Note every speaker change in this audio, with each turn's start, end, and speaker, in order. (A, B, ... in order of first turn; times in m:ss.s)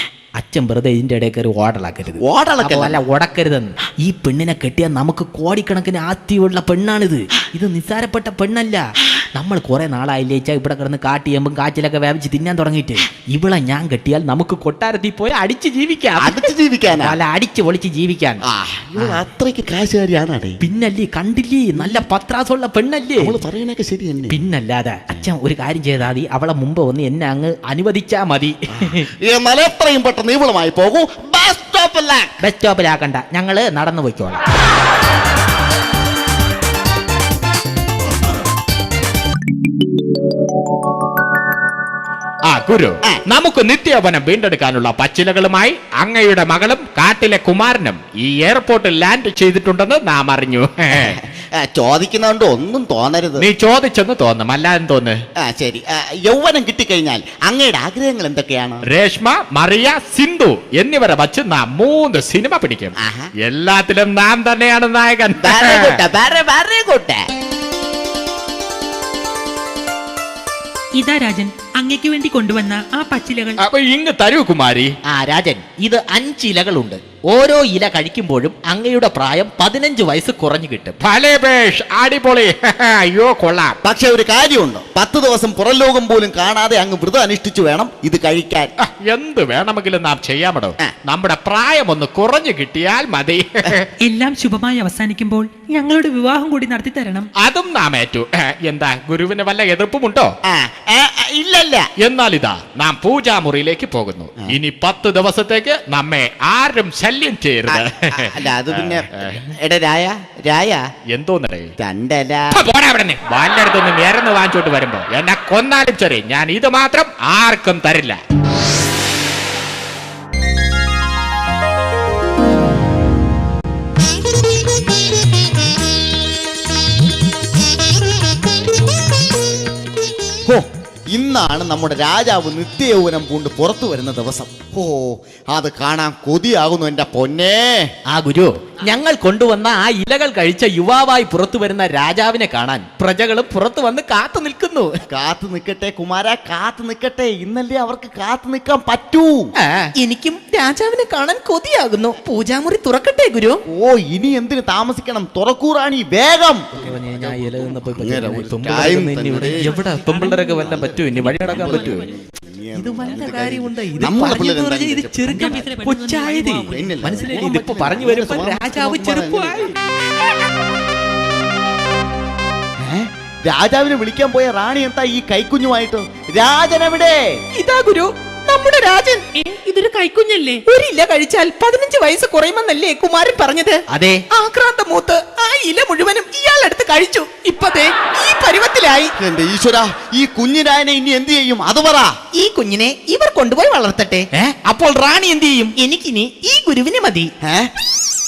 0:00.4-0:18.4 A
0:02.2-0:03.0 B
0:16.2-0:17.2 B
0:18.4-0:20.6 B
0:20.6-0:23.4 A
0:21.8-0:22.0 B
0:23.2-0:24.4 B
0:24.3-0:29.1 A
0:28.8-0:32.3 B
0:32.4-0:34.4 A
0:42.5-0:51.1 C
0:50.9-0:53.4 B
0:53.4-0:55.2 C
0:55.4-0:58.8 B
0:58.9-1:06.0 C
1:03.0-1:03.3 B
1:05.4-1:07.2 B
1:11.0-1:13.6 D
1:13.6-1:14.9 C
1:15.1-1:21.0 A
1:21.0-1:23.8 C
1:23.8-1:28.7 B
1:28.8-1:33.8 C
1:34.0-1:37.3 D
1:37.4-1:40.3 C
1:40.5-1:41.9 B
1:42.0-1:49.4 C
1:47.7-1:50.8 B
1:51.1-1:51.7 C
1:51.8-1:52.6 B
1:52.5-1:58.2 C
2:10.5-2:17.9 B
2:18.1-2:24.9 A
2:25.1-2:29.4 B
2:29.6-2:33.6 A
2:33.7-2:39.8 B
2:36.8-2:42.0 A
2:39.4-2:42.2 D
2:40.4-2:45.7 B
2:42.8-2:49.7 A
2:45.2-2:47.5 D
2:46.7-2:49.8 B
2:52.8-2:57.2 B
2:57.6-2:59.2 A
2:59.3-3:00.6 D
3:00.7-3:09.1 A
3:09.2-3:12.1 B
3:12.3-3:17.3 A